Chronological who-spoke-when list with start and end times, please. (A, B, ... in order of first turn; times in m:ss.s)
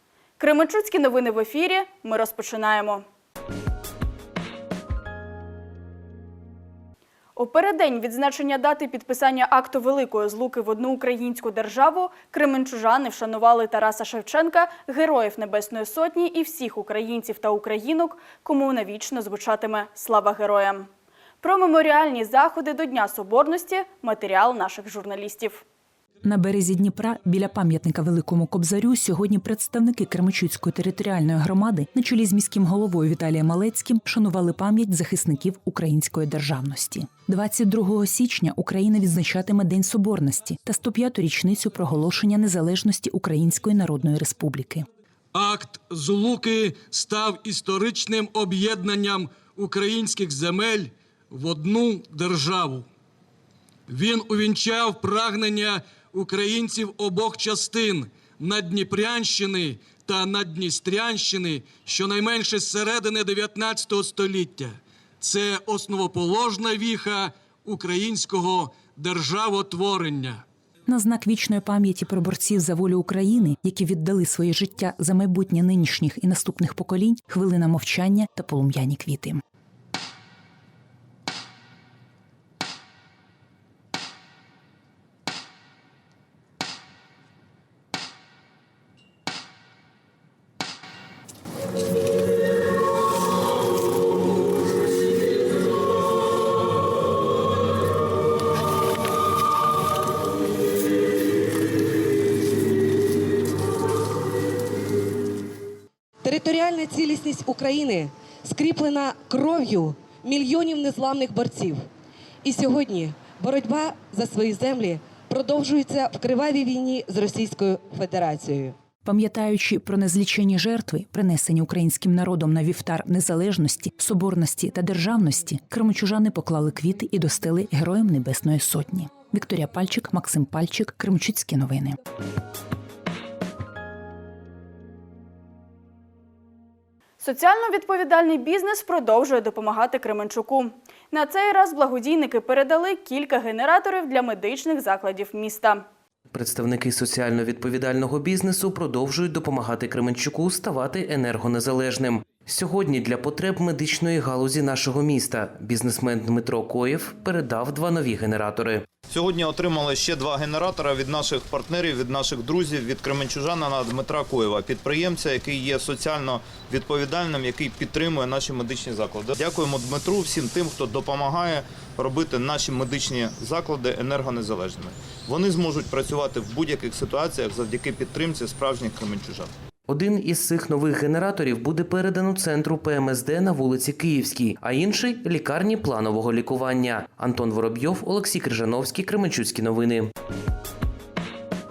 0:00.4-0:03.0 A
0:07.4-0:20.9 A
0:21.4-0:25.6 A
0:26.2-0:44.9 B
0:45.3-0:52.9 C
0:53.9-1:10.4 C
1:10.9-1:19.4 B
1:46.2-1:51.8 D
1:52.4-1:58.8 D
1:59.1-2:12.0 B
2:17.2-2:25.8 A
2:26.3-2:38.9 E
2:39.1-2:59.5 F
2:59.9-3:10.1 E